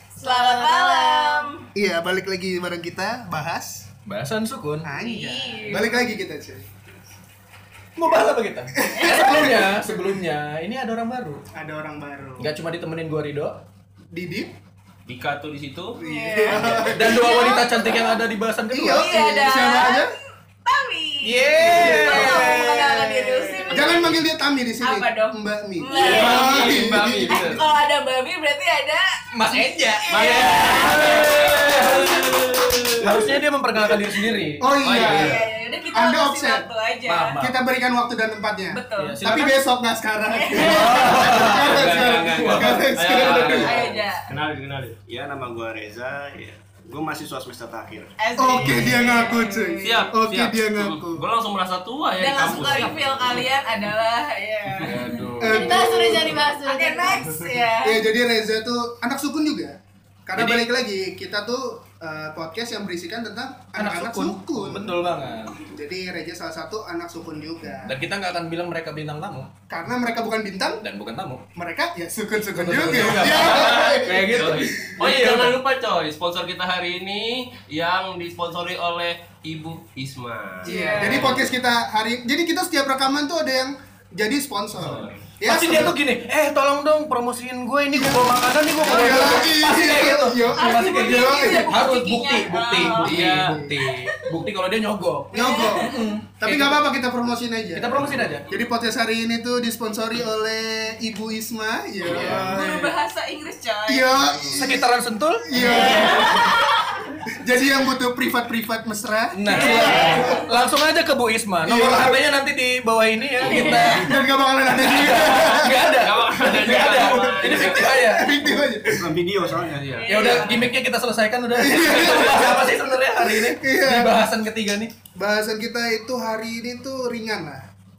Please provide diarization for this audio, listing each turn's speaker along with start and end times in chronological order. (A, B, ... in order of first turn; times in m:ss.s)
0:00.2-0:01.5 A
0:00.2-0:01.7 B
0:01.7-0:03.9 C
0:04.0-0:05.5 D
0:04.8-0:06.6 C
0:05.0-0:06.0 B
0:08.0-0:11.4 D
0:08.8-0:10.2 C
0:11.5-0:12.5 C
0:12.4-0:13.6 D
0:14.1-0:14.5 C
0:15.1-0:16.0 E
0:16.0-0:17.7 C
0:16.0-0:18.2 B
0:16.8-0:19.3 D
0:18.7-0:20.1 C
0:18.9-0:24.1 B
0:21.2-0:23.4 D
0:21.5-0:22.8 C
0:23.6-0:27.6 C
0:24.8-0:31.3 B
0:25.9-0:27.6 E
0:25.9-0:26.2 A
0:29.3-0:32.3 D
0:30.1-0:33.2 E
0:33.0-0:35.4 D
0:34.6-0:36.6 C
0:34.8-0:35.3 E
0:35.0-0:37.4 B
0:37.0-0:37.6 D
0:37.4-0:43.8 C
0:38.7-0:39.5 B
0:39.0-0:39.6 D
0:40.3-0:41.3 B
0:40.5-0:43.7 D
0:41.2-0:45.0 E
0:43.6-0:44.3 B
0:45.1-0:48.1 F
0:48.2-0:50.1 B
0:48.4-0:51.2 C
0:48.6-0:48.9 E
0:49.8-0:53.5 E
0:52.2-0:55.2 B
0:54.8-0:55.8 E
0:55.4-0:56.4 C
0:55.4-0:57.4 A
0:56.6-0:58.0 B
0:57.8-1:05.0 C
1:00.3-1:00.7 D
1:03.8-1:05.6 D
1:05.6-1:08.0 C
1:07.8-1:09.5 D
1:09.7-1:10.8 C
1:10.8-1:11.4 D
1:11.6-1:14.9 C
1:12.5-1:15.6 D
1:13.0-1:21.4 E
1:20.6-1:21.4 B
1:20.6-1:26.0 C
1:21.1-1:21.4 D
1:24.8-1:25.2 E
1:25.4-1:36.8 D
1:27.9-1:31.7 C
1:30.5-1:34.3 B
1:33.0-1:33.6 E
1:33.0-1:33.8 C
1:35.3-1:36.1 B
1:35.3-1:43.0 C
1:37.7-1:38.5 D
1:42.0-1:42.6 D
1:42.1-1:44.3 B
1:43.9-1:44.9 C
1:44.3-1:44.6 E
1:44.5-1:46.6 D
1:45.4-1:46.8 C
1:45.6-1:47.0 B
1:47.3-1:50.4 C
1:49.3-1:54.2 D
1:49.5-1:50.4 B
1:51.6-1:52.2 C
1:53.4-1:53.9 B
1:53.4-1:53.8 E
1:53.5-1:55.7 C
1:54.7-1:58.5 D
1:56.0-1:57.8 E
1:57.0-1:59.2 C
1:58.9-2:00.0 F
1:59.6-2:00.4 E
1:59.9-2:00.7 B
2:00.0-2:04.9 D
2:01.6-2:04.1 C
2:05.2-2:07.6 C